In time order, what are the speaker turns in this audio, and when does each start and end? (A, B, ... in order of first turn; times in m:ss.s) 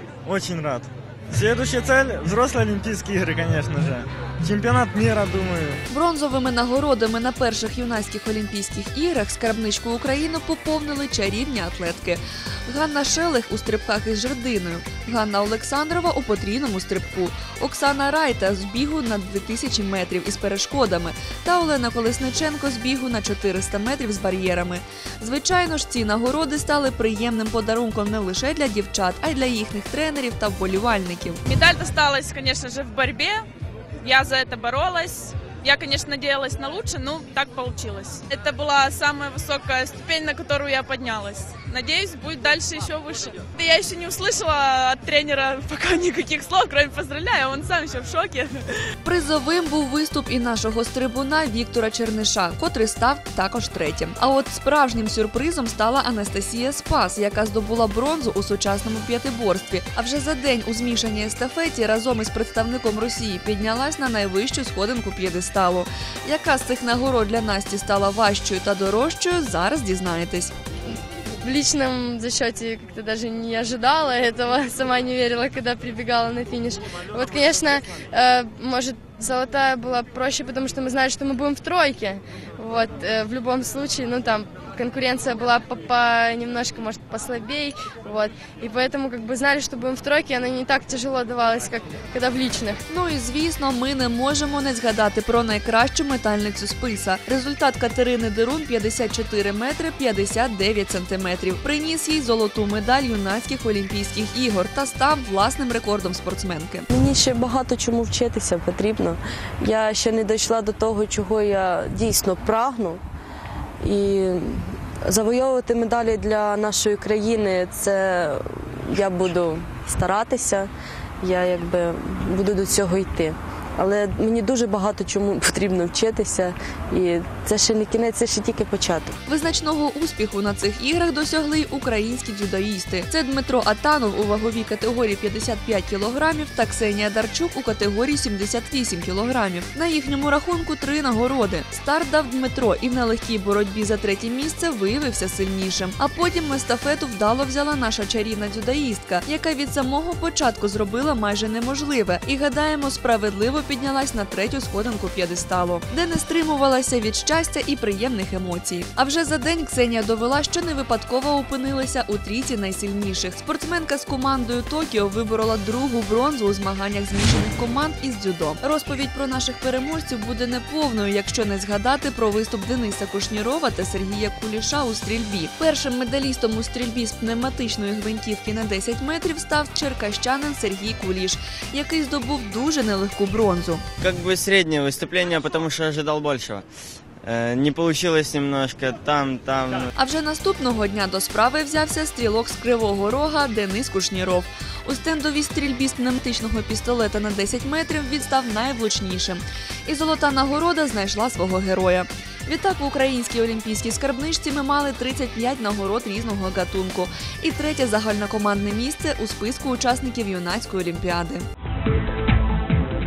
0:00.2-0:05.8 A
0:05.9-0:31.4 B
0:31.5-0:33.4 C
0:34.0-0:48.6 C
0:49.0-1:10.5 B
1:11.4-1:32.8 D
1:32.9-1:46.9 B
1:46.9-1:53.0 E
1:53.8-2:00.7 E
2:01.2-2:09.2 E
2:09.3-3:03.8 B
3:04.0-3:06.6 F
3:07.2-3:09.9 F
3:10.0-3:31.5 B